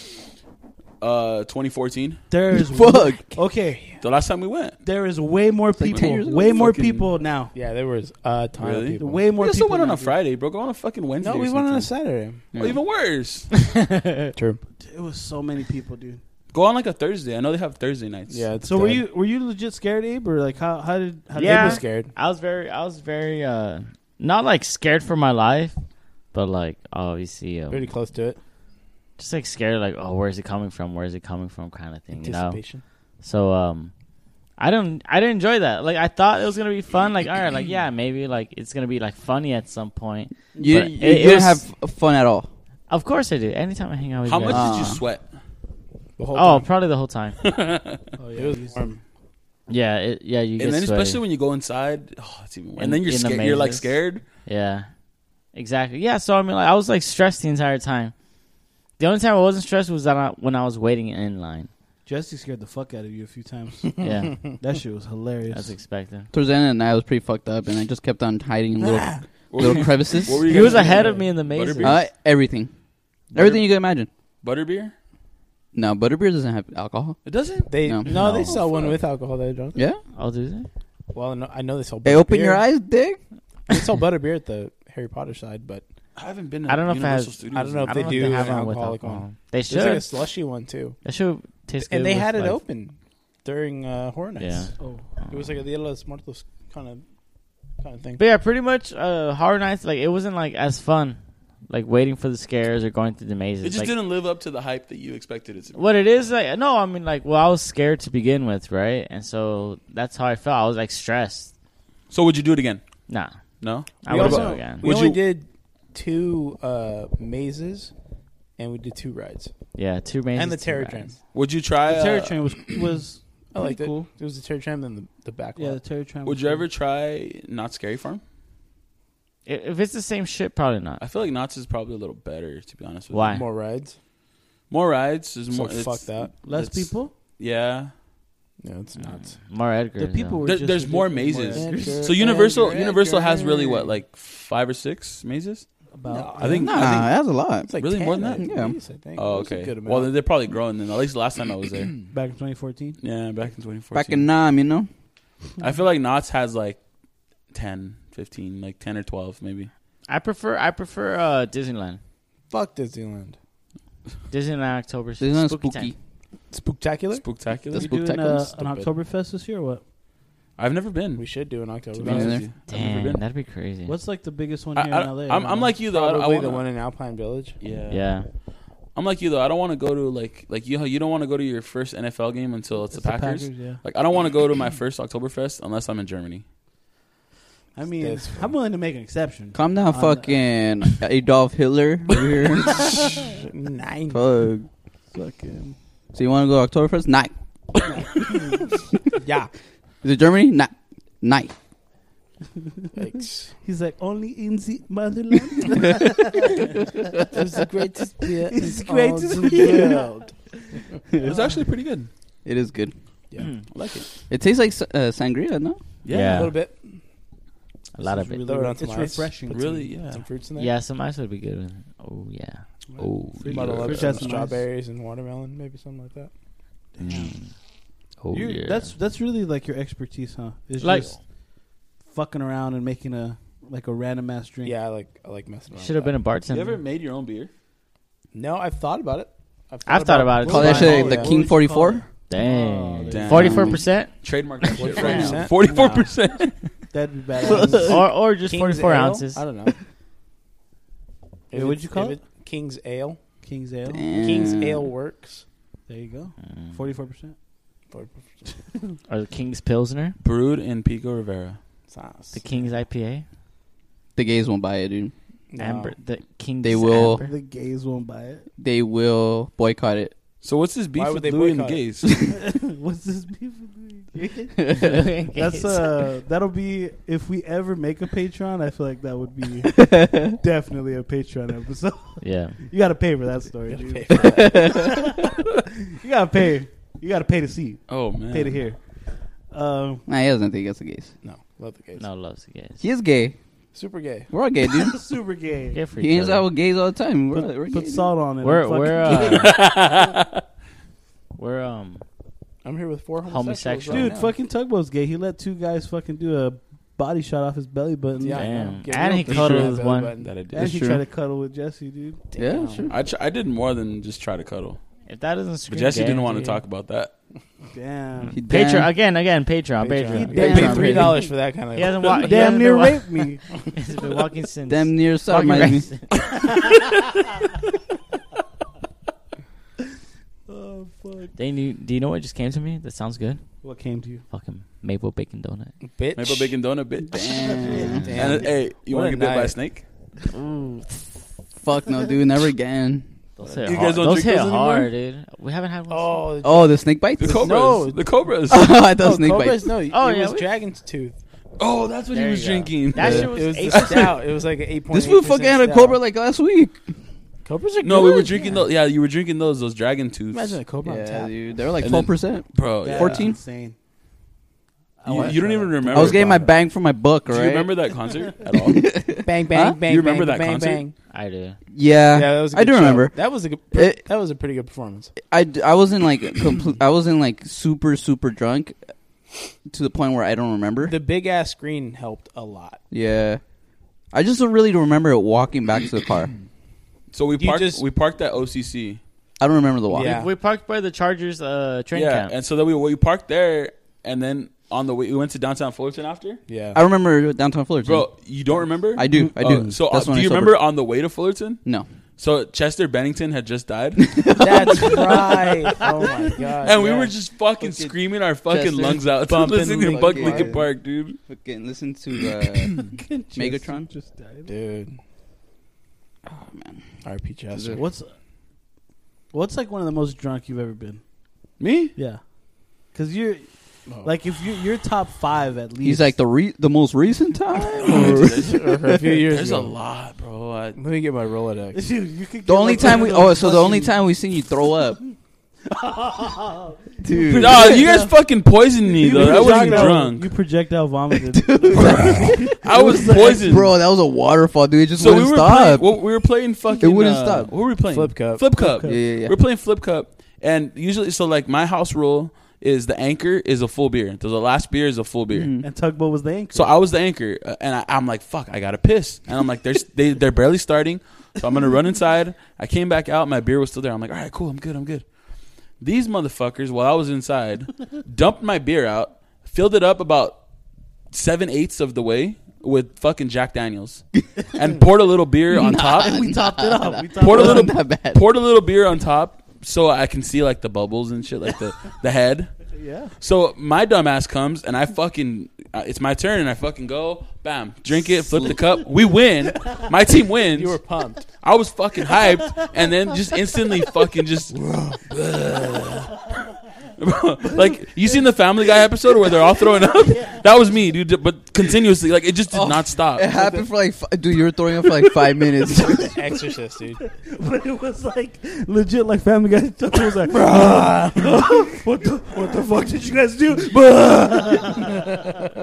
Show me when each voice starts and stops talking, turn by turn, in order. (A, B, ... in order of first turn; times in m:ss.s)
0:01.0-0:02.2 A
0:02.3-0:04.0 B
0:02.7-0:03.2 C
0:04.0-0:04.8 A
0:04.8-0:07.5 B
0:05.8-0:06.8 C
0:05.9-0:07.0 A
0:07.5-0:09.3 D
0:08.6-0:11.9 A
0:09.0-0:10.2 B
0:11.2-0:12.5 D
0:12.5-0:12.8 C
0:12.5-0:13.5 A
0:13.7-0:14.3 E
0:14.4-0:14.6 D
0:14.8-0:16.2 B
0:16.5-0:18.5 A
0:18.3-0:19.0 D
0:18.6-0:21.8 B
0:21.4-0:22.1 D
0:21.4-0:25.7 E
0:26.3-0:27.9 E
0:27.7-0:28.4 D
0:29.2-0:32.6 E
0:32.1-0:32.8 D
0:33.2-0:33.9 E
0:34.6-0:41.6 E
0:40.6-0:42.5 C
0:42.9-0:44.9 E
0:44.2-0:45.3 A
0:44.5-0:45.0 C
0:46.2-0:46.7 D
0:46.3-0:47.4 E
0:47.4-0:48.0 A
0:48.2-0:49.0 B
0:48.4-0:49.0 D
0:49.7-0:51.2 E
0:50.6-0:54.2 A
0:52.8-0:53.9 E
0:54.4-0:54.9 E
0:55.5-0:58.1 E
0:59.0-1:01.7 E
1:02.0-1:05.7 B
1:04.0-1:04.4 E
1:05.5-1:06.3 E
1:06.3-1:10.5 C
1:08.8-1:09.2 D
1:09.5-1:12.0 A
1:10.4-1:12.0 E
1:10.8-1:11.2 B
1:11.8-1:12.7 C
1:13.3-1:13.6 A
1:13.3-1:14.1 C
1:14.4-1:14.9 A
1:15.7-1:17.2 C
1:17.2-1:19.0 A
1:17.7-1:19.8 D
1:18.0-1:18.7 E
1:19.7-1:20.0 C
1:20.1-1:20.7 E
1:21.1-1:22.6 D
1:22.0-1:23.2 C
1:23.7-1:25.8 D
1:26.2-1:28.4 A
1:26.7-1:30.2 E
1:27.5-1:31.0 D
1:31.0-1:32.6 E
1:31.8-1:34.7 D
1:34.4-1:35.5 E
1:34.8-1:35.0 B
1:35.3-1:37.0 D
1:37.8-1:38.2 D
1:38.2-1:43.9 E
1:43.6-1:45.9 A
1:45.7-1:51.5 E
1:52.1-1:52.8 A
1:53.1-1:53.3 E
1:53.6-1:55.2 A
1:54.0-1:54.8 E
1:54.1-1:57.9 D
1:54.2-1:54.6 B
1:58.6-1:59.5 D
1:59.7-2:01.1 E
2:00.3-2:01.2 D
2:01.3-2:02.3 A
2:01.9-2:04.1 B
2:03.5-2:05.8 D
2:05.6-2:06.6 B
2:06.2-2:08.2 A
2:09.4-2:11.0 E
2:11.0-2:13.4 A
2:13.1-2:13.4 E
2:13.2-2:14.0 D
2:14.7-2:17.9 A
2:15.5-2:16.3 D
2:16.4-2:17.1 B
2:18.6-2:19.3 D
2:19.0-2:20.4 E
2:20.0-2:22.2 B
2:20.4-2:25.7 A
2:21.5-2:23.9 D
2:25.9-2:26.6 B
2:26.1-2:30.1 D
2:26.4-2:27.1 A
2:26.6-2:27.7 C
2:27.8-2:28.4 A
2:28.4-2:28.8 C
2:29.2-2:31.9 A
2:32.1-2:33.0 B
2:33.0-2:34.2 A
2:33.9-2:34.9 C
2:35.6-2:36.8 A
2:37.5-2:39.7 A
2:40.1-2:42.0 E
2:42.5-2:43.4 D
2:44.3-2:45.9 E
2:45.2-2:45.9 C
2:46.5-2:48.9 D
2:47.2-2:47.9 A
2:47.7-2:48.4 C
2:47.7-2:49.8 B
2:50.6-2:51.4 A
2:51.2-2:52.6 D
2:52.0-2:53.2 A
2:52.0-2:52.4 C
2:52.7-2:53.9 E
2:53.8-2:55.7 B
2:54.8-2:56.6 A
2:55.8-2:57.6 D
2:57.6-2:58.2 A
2:57.9-2:58.3 E
2:58.9-3:06.4 A
3:02.9-3:03.8 B
3:07.7-3:10.4 B
3:08.0-3:08.5 D
3:09.5-3:13.1 C
3:13.3-3:14.2 D
3:14.1-3:14.7 C
3:15.1-3:15.8 B
3:16.1-3:17.3 C
3:19.2-3:19.5 D
3:20.0-3:21.5 C
3:23.0-3:23.5 D
3:23.6-3:26.7 B
3:27.2-3:30.3 D
3:28.4-3:31.4 B
3:31.2-3:32.1 A
3:32.4-3:32.9 C
3:33.3-3:34.0 D
3:33.4-3:33.7 E
3:33.7-3:34.0 A
3:34.3-3:35.8 C
3:36.0-3:36.5 A
3:36.1-3:36.6 E
3:36.2-3:37.0 D
3:37.9-3:39.9 B
3:38.0-3:38.4 E
3:38.4-3:39.5 D
3:39.5-3:40.2 A
3:40.1-3:40.7 D
3:40.5-3:43.7 E
3:42.9-3:44.7 B
3:43.1-3:44.3 A
3:43.5-3:46.3 D
3:47.0-3:47.3 B
3:47.0-3:47.5 E
3:48.2-3:48.9 E
3:48.3-3:51.2 B
3:50.8-3:51.1 E
3:52.1-3:54.8 B
3:54.6-3:56.2 D
3:55.7-3:56.8 E
3:56.5-3:57.5 A
3:58.3-4:01.3 D
3:59.8-4:01.3 E
4:00.4-4:03.7 B
4:00.5-4:02.0 C
4:02.3-4:04.1 E
4:03.1-4:06.6 A
4:03.3-4:03.8 C
4:04.7-4:05.4 E
4:04.7-4:06.1 D
4:06.9-4:08.0 B
4:07.4-4:09.8 D
4:07.5-4:09.4 E
4:11.5-4:13.2 D
4:11.5-4:12.2 B
4:13.4-4:14.0 B
4:13.9-4:14.9 C
4:14.1-4:15.4 D
4:15.9-4:17.3 B
4:17.9-4:18.6 D
4:19.1-4:20.2 E
4:20.2-4:21.6 A
4:21.9-4:22.4 D
4:22.3-4:23.2 E
4:24.2-4:25.1 C
4:25.5-4:26.0 D
4:25.6-4:27.3 E
4:26.6-4:27.2 C
4:27.2-4:28.4 B
4:28.6-4:30.1 C
4:30.4-4:32.1 A
4:30.9-4:31.8 D
4:32.3-4:48.8 B
4:34.6-4:35.1 C
4:34.8-4:35.9 E
4:39.8-4:40.3 C
4:42.2-4:42.6 E
4:43.7-4:45.0 D
4:44.4-4:44.9 C
4:47.9-4:48.6 A
4:49.5-4:50.0 B
4:50.1-4:51.1 C
4:51.2-4:52.0 D
4:52.0-4:52.8 E
4:52.8-4:53.3 C
4:53.7-4:54.3 D
4:54.3-4:55.0 C
4:54.8-4:55.8 B
4:55.7-4:56.4 E
4:56.0-4:58.1 C
4:57.3-4:59.6 B
4:58.4-4:59.6 E
4:59.1-5:00.4 A
5:01.4-5:02.0 E
5:02.6-5:04.3 D
5:03.2-5:04.1 E
5:03.9-5:08.5 B
5:08.2-5:10.4 D
5:08.3-5:10.1 E
5:10.2-5:10.8 A
5:10.5-5:12.7 B
5:10.5-5:11.0 C
5:12.4-5:12.9 C
5:12.5-5:12.8 D
5:12.9-5:14.8 A
5:15.0-5:16.6 E
5:15.7-5:17.1 A
5:17.7-5:18.4 B
5:18.3-5:18.9 C
5:18.3-5:23.2 E
5:19.8-5:22.4 D
5:20.1-5:21.0 B
5:20.3-5:21.2 C
5:22.1-5:23.4 B
5:23.7-5:26.2 E
5:24.7-5:25.9 C
5:30.5-5:31.3 B
5:31.4-5:33.4 E
5:33.6-5:34.2 B
5:34.3-5:35.8 E
5:35.8-5:36.5 D
5:36.2-5:39.8 A
5:37.1-5:38.4 C
5:37.8-5:39.6 D
5:40.3-5:41.0 E
5:41.6-5:43.0 C
5:43.4-5:46.4 E
5:43.5-5:43.8 D
5:43.6-5:44.9 A
5:45.9-5:48.1 D
5:46.4-5:47.6 C
5:47.2-5:48.8 A
5:48.5-5:49.7 C
5:48.9-5:51.2 D
5:49.9-5:50.5 E
5:51.6-5:54.1 A
5:52.1-5:54.2 E
5:53.0-5:56.0 D
5:53.0-5:53.3 C
5:54.9-5:56.9 C
5:57.4-5:58.5 D
5:57.8-6:00.6 A
6:00.3-6:01.4 D
6:00.8-6:03.4 C
6:01.8-6:03.2 A
6:02.8-6:03.7 B
6:05.0-6:06.5 B
6:05.1-6:06.5 A
6:05.9-6:07.7 C
6:07.3-6:09.0 A
6:08.6-6:09.8 C
6:09.2-6:11.0 D
6:09.8-6:10.8 A
6:11.1-6:11.6 E
6:11.7-6:13.2 C
6:12.1-6:15.1 D
6:13.7-6:14.0 C
6:15.2-6:18.8 C
6:19.6-6:20.9 C
6:20.8-6:22.8 D
6:22.9-6:23.4 C
6:24.1-6:26.3 C
6:27.1-6:29.0 A
6:27.4-6:27.8 D
6:29.4-6:30.2 C
6:29.9-6:30.3 D
6:30.0-6:32.3 E
6:31.9-6:36.4 A
6:36.5-6:36.8 D
6:36.7-6:38.1 C
6:37.8-6:41.6 A
6:38.9-6:40.6 C
6:39.1-6:39.7 B
6:42.2-6:45.3 A
6:44.0-6:45.3 C
6:44.4-6:47.1 D
6:46.6-6:51.2 A
6:47.6-6:49.0 C
6:49.2-6:50.6 D
6:49.8-6:50.7 C
6:51.3-6:53.8 C
6:52.7-6:54.5 B
6:54.5-6:55.0 D
6:56.3-6:56.9 C
6:57.0-6:57.8 D
6:57.5-6:57.8 C
6:57.7-6:58.1 B
6:59.3-7:01.0 B
7:01.6-7:01.9 A
7:02.0-7:02.2 B
7:02.9-7:03.5 B
7:03.9-7:04.1 D
7:04.0-7:06.2 B
7:05.8-7:09.0 C
7:07.8-7:08.6 A
7:07.8-7:09.7 D
7:09.2-7:10.8 A
7:10.8-7:11.9 D
7:11.7-7:14.0 B
7:12.4-7:15.0 C
7:15.7-7:18.1 B
7:17.0-7:17.9 C
7:17.3-7:20.3 A
7:18.9-7:23.5 B
7:19.0-7:20.0 D
7:21.3-7:25.9 C
7:22.6-7:23.7 A
7:25.0-7:35.5 A
7:26.8-7:27.5 C
7:27.8-7:28.5 D
7:28.6-7:29.0 B
7:28.8-7:29.4 C
7:35.3-7:35.6 C
7:35.6-7:36.7 B
7:36.5-7:45.0 A
7:45.8-7:50.4 A
7:51.1-7:56.2 A
7:55.5-7:58.2 C
7:55.8-7:57.7 B
7:57.2-8:02.6 A
8:02.7-8:03.1 B
8:03.2-8:16.3 A
8:10.5-8:11.3 D
8:17.0-8:23.3 A
8:20.1-8:20.4 B
8:22.5-8:26.2 C
8:26.1-8:27.0 D
8:27.0-8:35.4 B
8:30.3-8:31.5 C